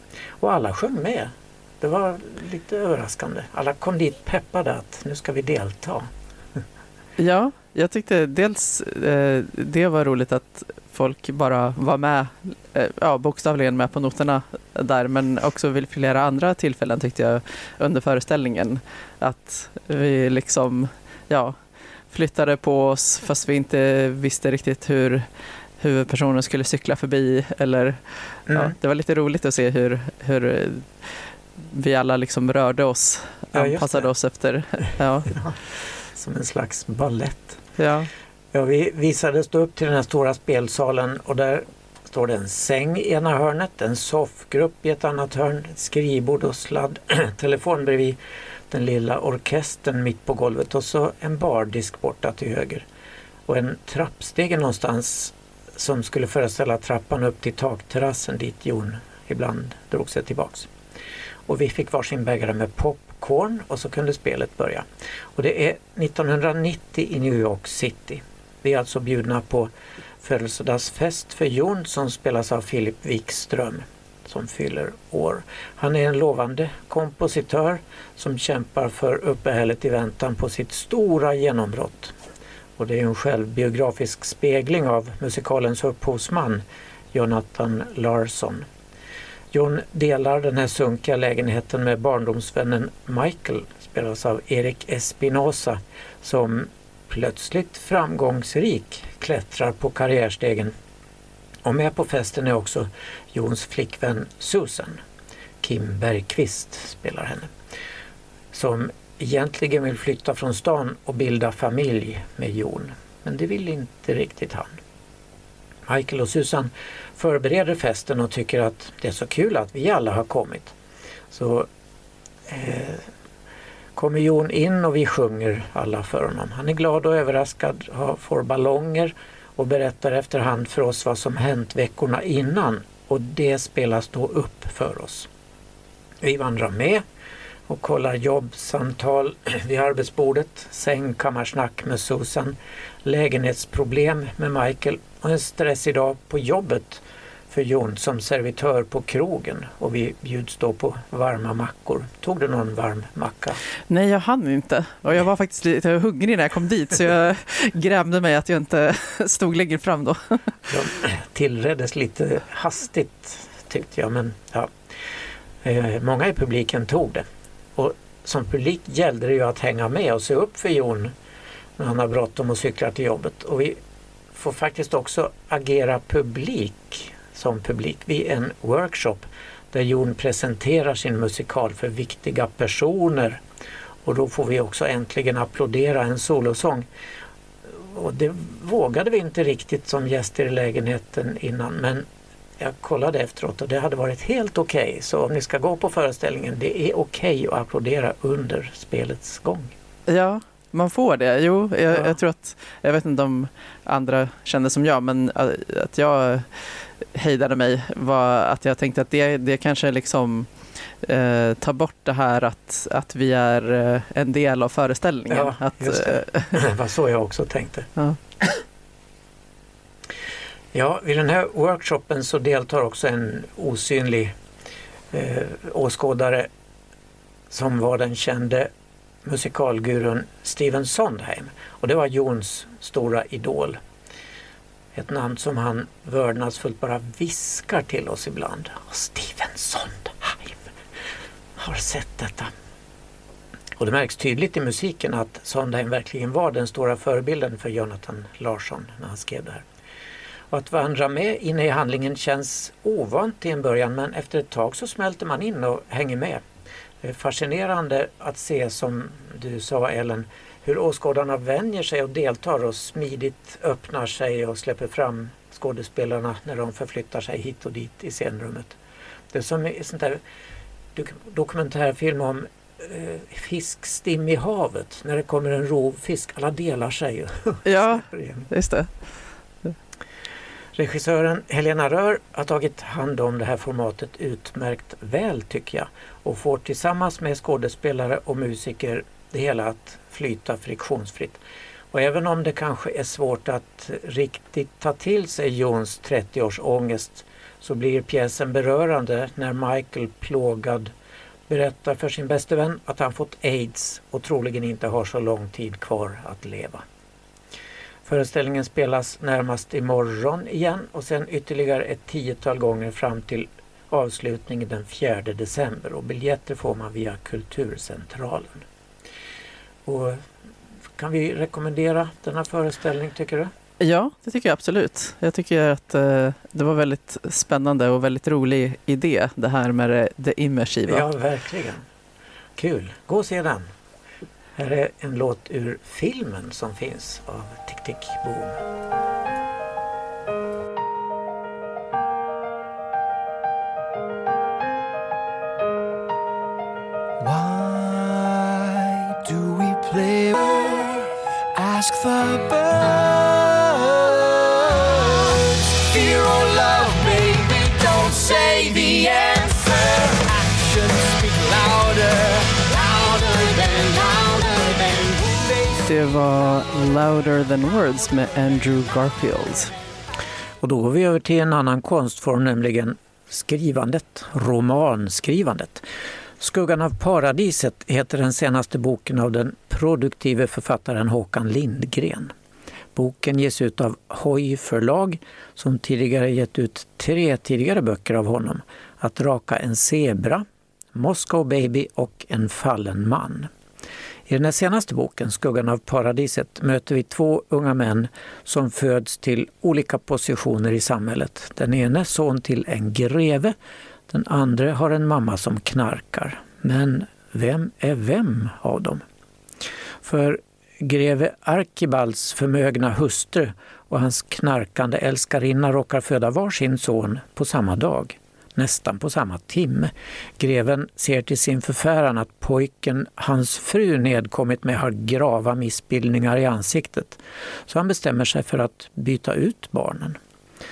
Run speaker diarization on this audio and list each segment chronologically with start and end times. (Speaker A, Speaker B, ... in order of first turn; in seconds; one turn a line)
Speaker A: 0.4-6.1
Speaker B: 7.2-21.6
Speaker B: 22.1-25.2
Speaker B: 25.8-28.0
Speaker A: 28.5-28.7
Speaker B: 28.5-30.9
Speaker B: 31.6-35.3
Speaker A: 33.5-34.1
Speaker A: 35.3-35.6
Speaker A: 36.1-37.6
Speaker B: 37.8-38.1
Speaker A: 38.5-48.2
Speaker A: 48.7-52.9
Speaker A: 53.5-60.7
Speaker A: 61.5-64.8
Speaker A: 65.3-82.1
Speaker A: 82.8-88.7
Speaker A: 89.5-100.7
Speaker A: 101.6-105.0
Speaker A: 105.6-107.5
Speaker A: 108.5-114.8
Speaker A: 115.9-120.7
Speaker A: 121.3-121.7
Speaker A: 122.5-123.0
Speaker A: 123.9-135.3
Speaker A: 136.2-137.0
Speaker A: 137.7-153.6
Speaker B: 153.9-160.5
Speaker A: 160.7-164.7
Speaker A: 165.6-167.2
Speaker A: 167.8-171.1
Speaker A: 171.8-173.8
Speaker A: 174.3-183.4
Speaker A: 184.0-186.9
Speaker A: 187.7-192.1
Speaker A: 192.6-199.7
Speaker B: 200.1-210.5
Speaker B: 211.0-216.6
Speaker A: 215.3-217.9
Speaker A: 220.7-224.3
Speaker A: 225.1-226.5
Speaker A: 227.5-228.7
Speaker A: 229.2-233.8
Speaker A: 234.9-240.7
Speaker A: 241.6-242.5
Speaker A: 243.8-249.6
Speaker A: 250.5-256.4
Speaker A: 257.0-268.8
Speaker A: 269.3-270.2
Speaker A: 270.9-278.5
Speaker B: 277.6-278.9
Speaker A: 280.7-291.4
Speaker A: 291.9-300.9
Speaker A: 301.5-306.8
Speaker A: 308.1-318.6
Speaker A: 319.9-320.3
Speaker A: 321.0-323.5
Speaker B: 323.8-331.1
Speaker A: 330.9-331.8
Speaker A: 332.6-333.7
Speaker A: 334.6-338.6
Speaker C: 347.2-365.8
Speaker B: 365.8-369.7
Speaker A: 370.6-375.9
Speaker A: 376.4-382.3
Speaker A: 382.9-393.5
Speaker A: 394.3-403.5
Speaker A: 404.1-409.0
Speaker A: 410.0-430.2